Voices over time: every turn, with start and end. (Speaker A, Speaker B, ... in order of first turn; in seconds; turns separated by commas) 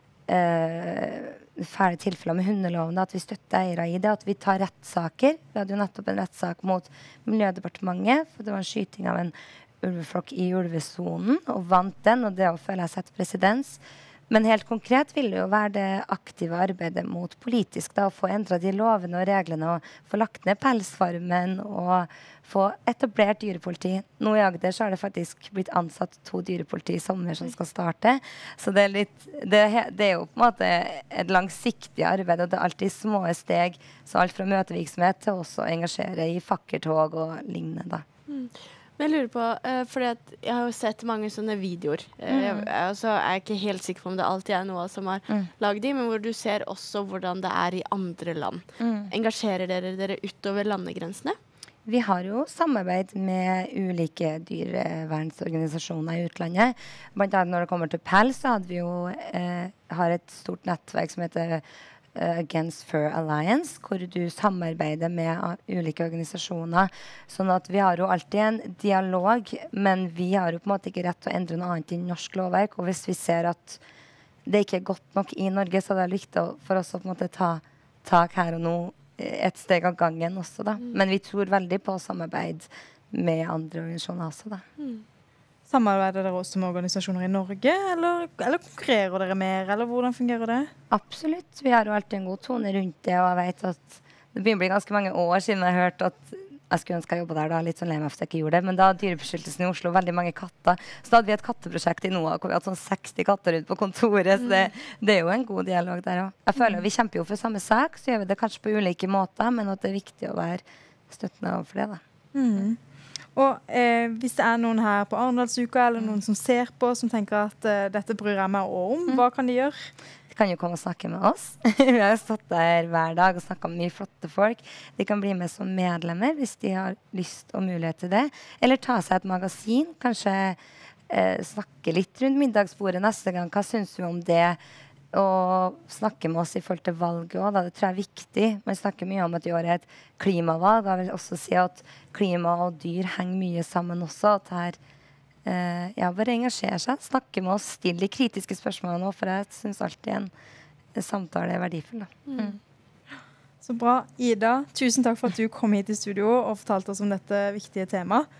Speaker A: 0.3-38.0, Speaker B: 38.3-51.3, Speaker A: 42.3-42.7, Speaker A: 48.8-49.1, Speaker A: 51.9-73.8, Speaker A: 74.5-84.6, Speaker C: 85.7-90.7, Speaker A: 90.9-112.0, Speaker C: 112.3-112.8, Speaker C: 113.3-119.9, Speaker A: 120.3-130.6, Speaker A: 131.1-134.6, Speaker A: 135.1-144.8, Speaker A: 145.4-150.3, Speaker A: 150.9-152.6, Speaker B: 152.3-152.6, Speaker C: 153.6-158.3